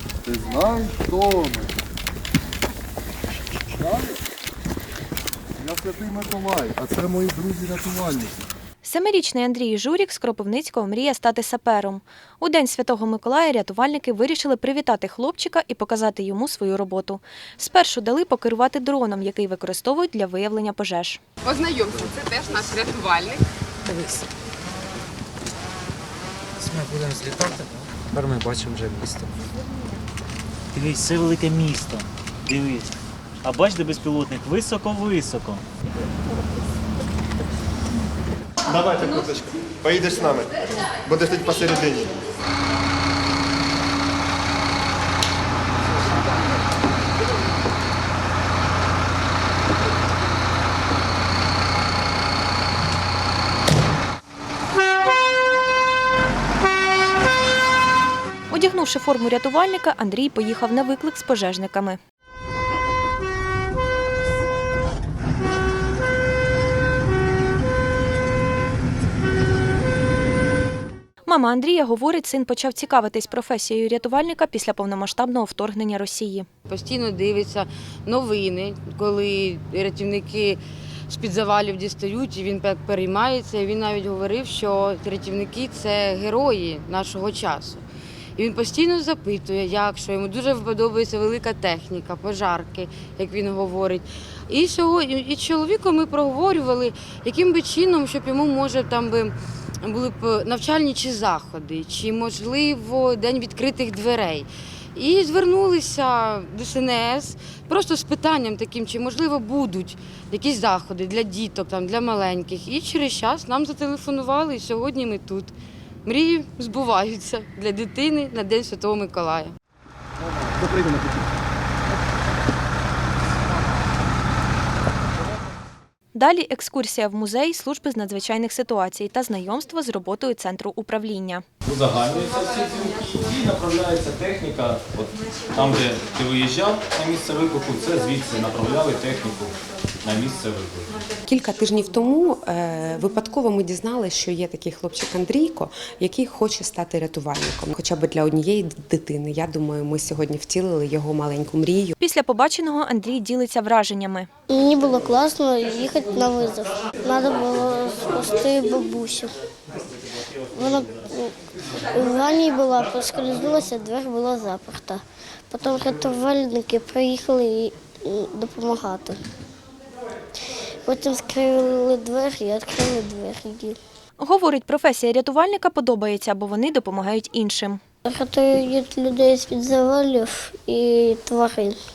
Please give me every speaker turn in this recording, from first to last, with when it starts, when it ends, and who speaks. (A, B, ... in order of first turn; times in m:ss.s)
0:00.2-0:01.7 A
0:03.8-0:04.2 A
0:05.6-0:08.4 A
0:08.8-0:21.2 B
0:21.4-0:23.4 C
0:23.9-0:24.2 D
0:26.6-0:29.3 D
0:30.7-0:35.6 E
0:38.7-0:42.2 F
0:58.5-1:02.0 B
1:11.3-1:16.5 B
1:16.7-1:27.8 G
1:28.4-1:55.5 G
1:56.0-1:59.5 G
2:06.1-2:11.4 B
2:11.6-2:20.9 H
2:21.2-2:31.9 I
2:32.0-2:34.3 B
2:34.5-2:39.3 J
2:40.5-2:41.3 J
2:41.9-2:49.2 J
2:50.8-2:53.8 J
2:54.2-2:57.8 B
2:58.1-3:01.8 J